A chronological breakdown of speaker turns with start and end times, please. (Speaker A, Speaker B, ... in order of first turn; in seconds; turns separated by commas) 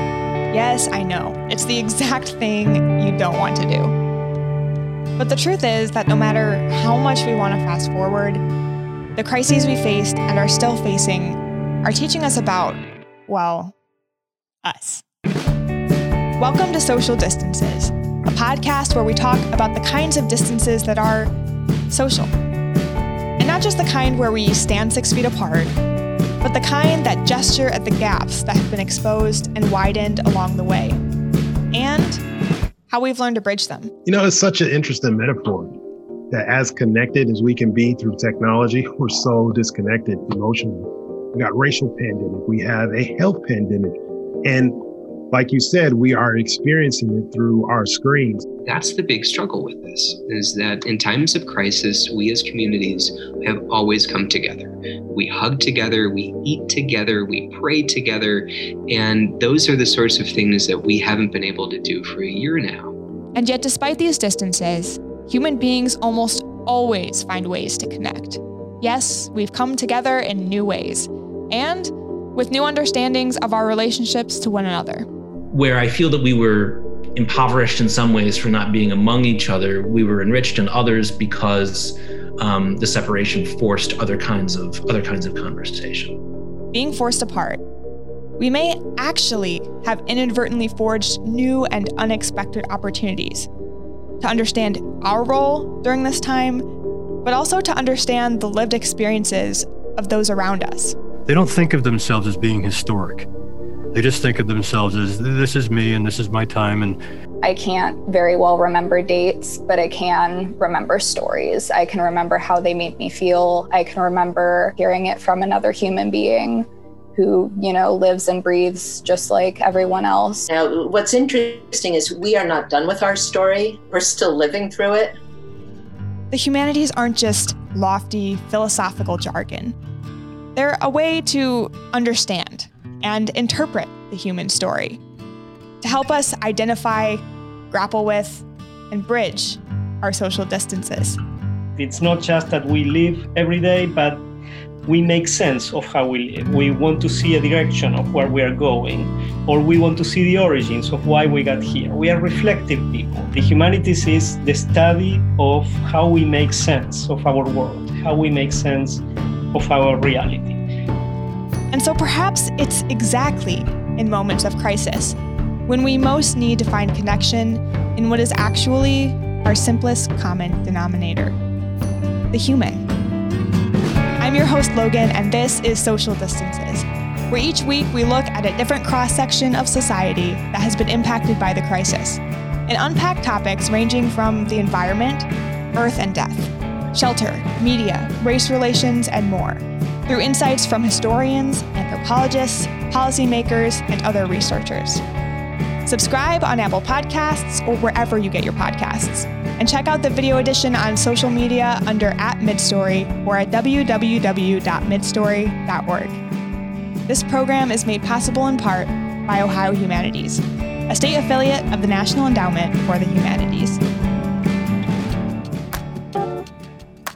Speaker A: 0.5-3.9, Speaker A: 5.2-8.4, Speaker A: 9.2-13.7, Speaker A: 14.6-15.0, Speaker A: 16.4-21.3, Speaker A: 21.9-22.3, Speaker A: 23.4-25.7, Speaker A: 26.4-31.0, Speaker A: 31.7-32.2, Speaker A: 32.9-33.9, Speaker B: 34.0-35.8, Speaker B: 36.3-44.8, Speaker B: 45.3-48.4, Speaker C: 48.6-62.9, Speaker A: 63.3-75.1, Speaker D: 75.5-86.2, Speaker A: 86.7-87.6, Speaker A: 88.4-93.5, Speaker A: 94.2-96.6, Speaker A: 97.2-100.9, Speaker E: 101.2-103.3, Speaker E: 103.9-107.0, Speaker F: 107.4-120.4, Speaker G: 120.5-125.2, Speaker A: 126.3-129.8, Speaker A: 130.5-135.0, Speaker A: 135.8-141.2, Speaker H: 141.8-144.2, Speaker H: 144.9-160.6, Speaker A: 161.7-171.3, Speaker A: 172.3-172.9, Speaker A: 174.2-195.0, Speaker A: 195.8-206.2, Speaker A: 207.1-213.8